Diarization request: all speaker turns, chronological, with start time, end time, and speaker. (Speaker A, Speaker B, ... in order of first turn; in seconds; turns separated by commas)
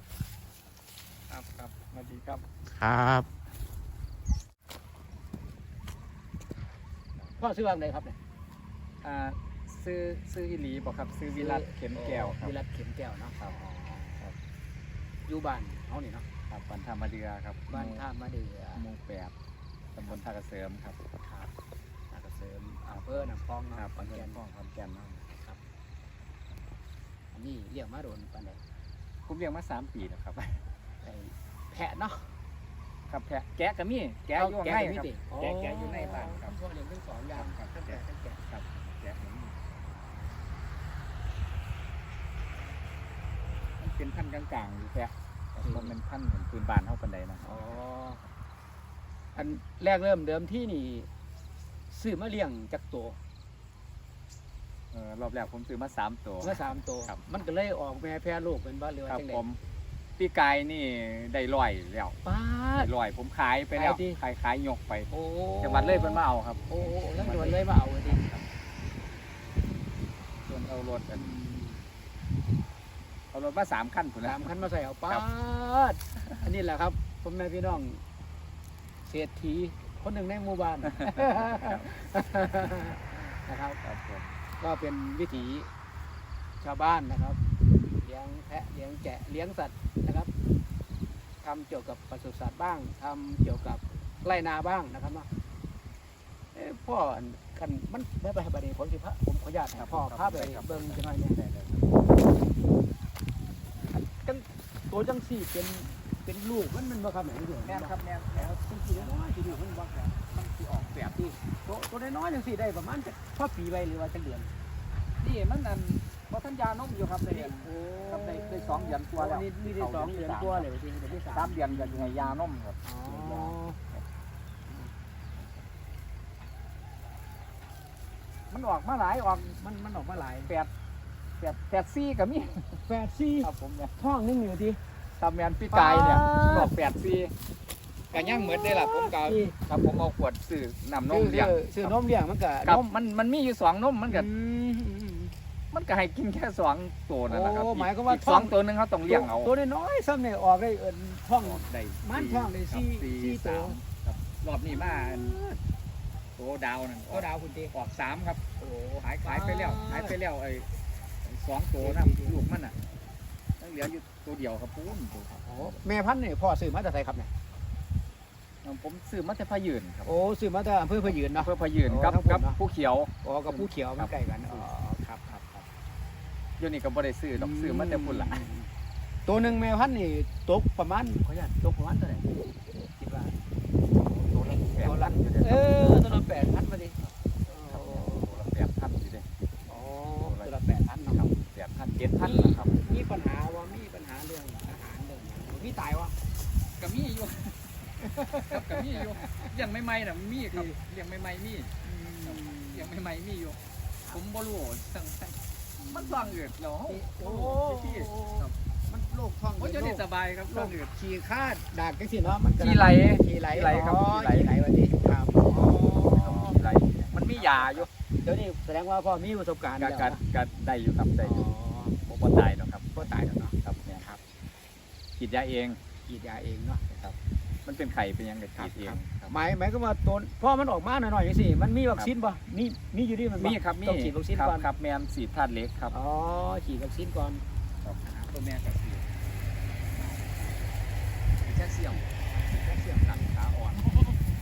Speaker A: 1.3-2.4, Speaker B: 2.8-3.2, Speaker B: 7.4-8.2, Speaker A: 9.0-12.5, Speaker B: 11.3-14.3, Speaker B: 15.3-16.2, Speaker A: 16.5-18.1, Speaker B: 17.7-18.8, Speaker A: 18.8-19.3, Speaker A: 19.9-21.0, Speaker B: 21.2-21.5, Speaker B: 22.1-24.4, Speaker A: 22.9-25.3, Speaker B: 25.3-25.6, Speaker B: 27.3-28.6, Speaker A: 29.3-30.6, Speaker B: 31.0-32.3, Speaker A: 33.1-36.5, Speaker B: 34.4-38.4, Speaker A: 37.3-39.7, Speaker A: 43.8-47.8, Speaker B: 45.6-45.9, Speaker B: 47.4-48.2, Speaker B: 49.4-51.1, Speaker B: 51.9-53.2, Speaker A: 54.9-57.2, Speaker B: 56.4-59.4, Speaker A: 59.1-59.6, Speaker A: 60.2-62.2, Speaker B: 62.2-62.9, Speaker A: 62.8-65.1, Speaker B: 63.8-64.2, Speaker B: 65.1-68.2, Speaker A: 65.6-66.6, Speaker A: 67.2-68.4, Speaker A: 70.5-71.3, Speaker B: 71.1-71.9, Speaker A: 73.3-75.2, Speaker B: 74.2-78.0, Speaker A: 76.2-76.5, Speaker B: 79.1-83.8, Speaker A: 80.8-81.9, Speaker A: 83.8-84.3, Speaker B: 84.6-85.7, Speaker B: 86.6-87.4, Speaker B: 88.0-90.3, Speaker B: 91.4-95.3, Speaker B: 96.5-101.4, Speaker A: 99.7-102.1, Speaker B: 104.2-110.3, Speaker A: 107.7-109.3, Speaker A: 110.1-111.3, Speaker B: 111.2-114.5, Speaker A: 115.2-120.7, Speaker B: 117.3-123.8, Speaker A: 121.2-124.0, Speaker A: 128.5-129.6, Speaker B: 129.4-130.5, Speaker A: 130.4-130.7, Speaker A: 131.4-132.8, Speaker B: 132.9-134.8, Speaker A: 133.4-133.9, Speaker A: 135.2-137.3, Speaker B: 135.7-136.7, Speaker B: 138.1-139.6, Speaker A: 138.1-141.9, Speaker B: 141.1-142.9, Speaker A: 142.7-144.3, Speaker B: 144.1-145.3, Speaker A: 145.7-149.5, Speaker B: 147.3-148.6, Speaker B: 149.1-153.8, Speaker A: 151.4-155.4, Speaker B: 154.7-155.6, Speaker A: 156.4-158.4, Speaker B: 157.1-157.7, Speaker B: 158.6-160.2, Speaker A: 159.0-160.7, Speaker A: 161.2-162.8, Speaker B: 161.8-162.4, Speaker A: 163.6-165.8, Speaker B: 165.4-167.3, Speaker A: 168.6-170.1, Speaker B: 170.0-172.6, Speaker A: 171.3-174.7, Speaker B: 173.2-175.6, Speaker A: 176.6-178.4, Speaker B: 177.4-178.7, Speaker B: 179.3-183.4, Speaker A: 184.1-186.5, Speaker B: 184.7-188.3, Speaker A: 187.7-189.2, Speaker B: 189.7-191.2, Speaker A: 190.1-190.6, Speaker A: 191.1-192.9, Speaker B: 192.2-196.2, Speaker A: 196.8-197.7, Speaker B: 198.0-199.5, Speaker A: 198.4-203.6, Speaker B: 201.8-202.9, Speaker A: 204.1-205.4, Speaker B: 205.8-220.2, Speaker A: 205.9-208.5, Speaker A: 209.6-210.9, Speaker A: 212.5-214.5, Speaker A: 215.4-217.9, Speaker A: 219.8-221.5, Speaker B: 221.2-222.0, Speaker A: 222.1-223.1, Speaker B: 222.9-224.2, Speaker A: 223.6-224.0, Speaker A: 225.2-225.8, Speaker B: 226.0-226.8, Speaker A: 226.9-229.3, Speaker B: 228.6-234.7, Speaker A: 233.4-235.9, Speaker B: 235.9-237.4, Speaker A: 237.8-239.2, Speaker B: 239.9-240.7, Speaker A: 241.4-244.1, Speaker B: 241.9-244.1